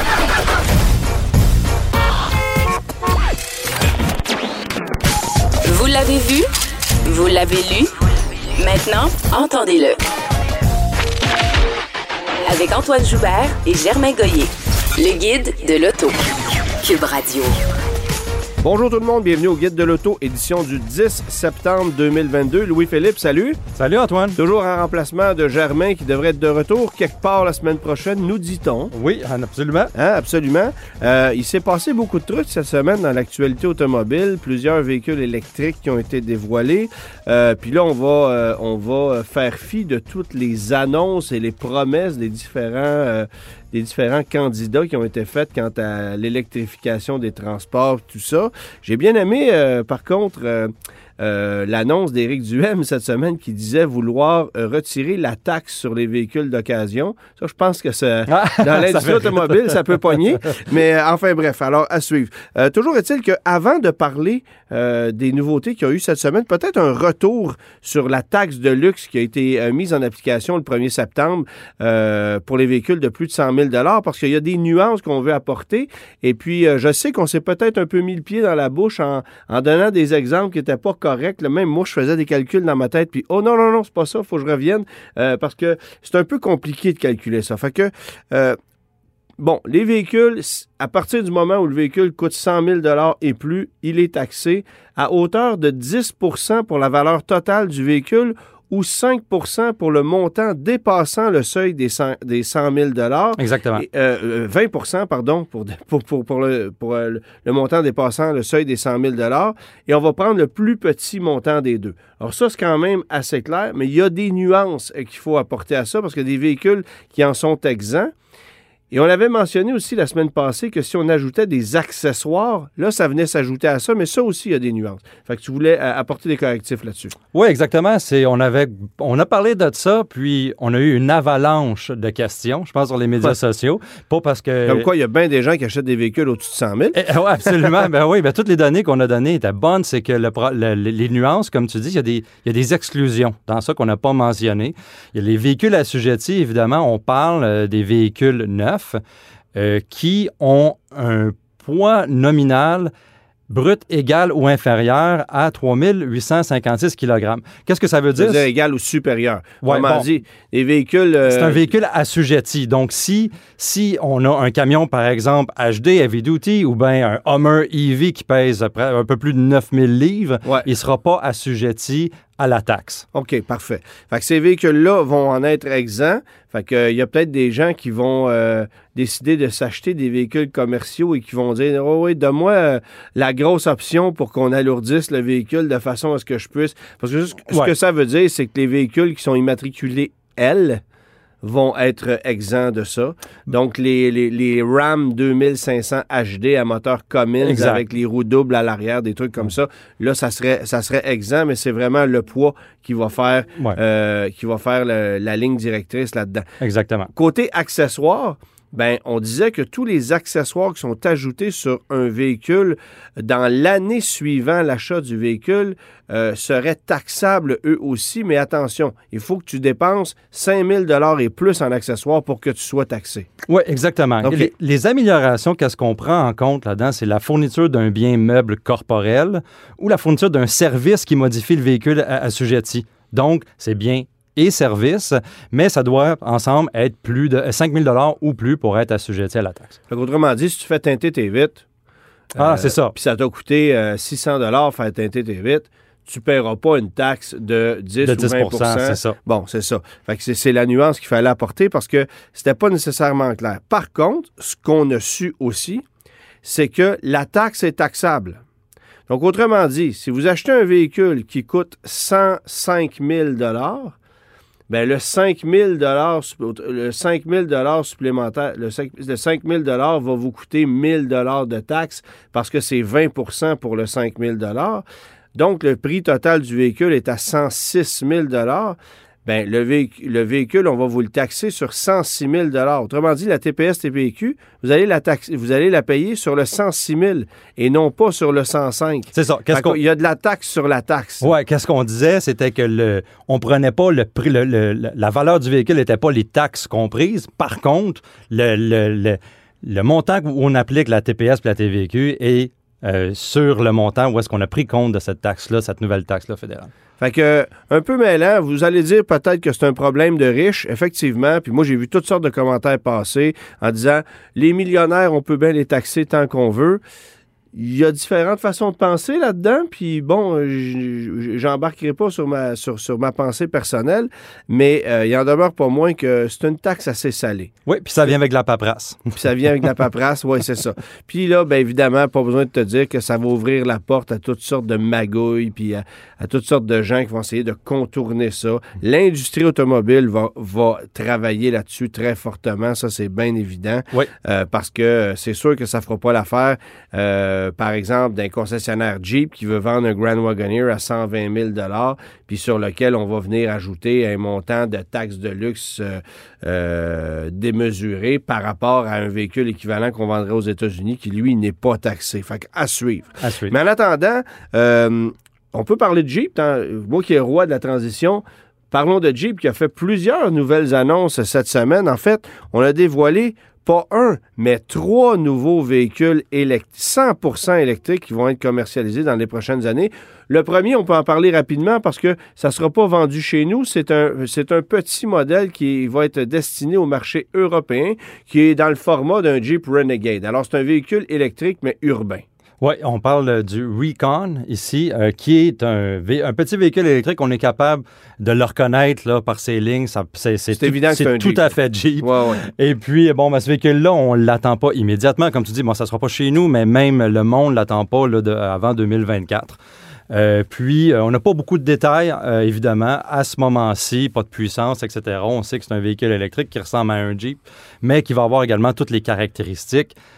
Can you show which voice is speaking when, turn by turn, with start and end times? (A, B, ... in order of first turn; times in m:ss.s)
0:05.8-0:06.3 A
0:07.2-0:07.9 A
0:08.6-0:09.9 A
0:12.5-0:14.5 A
0:15.0-0:16.2 A
0:16.9-0:17.4 A
0:18.6-0:23.6 B
0:23.8-0:24.4 C
0:24.4-0:28.9 B
0:28.9-0:29.9 C
0:30.0-1:28.6 B
0:58.3-1:00.6 C
1:29.4-1:58.1 B
1:43.4-1:43.9 C
1:58.9-2:07.1 B
2:07.3-2:14.9 C
2:14.6-2:17.5 B
2:16.9-2:29.0 C
2:29.5-2:32.9 C
2:33.5-2:38.5 C
2:38.2-2:41.7 B
2:39.6-2:40.1 C
2:41.2-2:53.1 C
2:53.1-3:10.8 B
3:07.5-3:07.8 C
3:11.4-3:26.4 B
3:17.4-3:17.8 C
3:26.6-3:27.1 C
3:27.1-3:43.3 B
3:43.5-3:59.8 C
3:44.2-3:44.5 B
3:59.9-4:01.6 B
4:02.4-4:15.8 B
4:02.4-4:03.0 C
4:08.0-4:09.2 C
4:16.4-4:18.4 B
4:19.1-4:24.0 B
4:24.7-4:34.8 B
4:35.4-4:51.3 B
4:49.1-4:49.8 C
4:51.2-5:06.7 C
5:07.0-5:16.8 B
5:17.5-5:27.5 B
5:27.7-5:29.7 C
5:29.2-6:32.2 B
6:03.2-6:03.6 C
6:32.6-6:49.6 C
6:40.5-6:42.4 B
6:50.1-7:00.0 C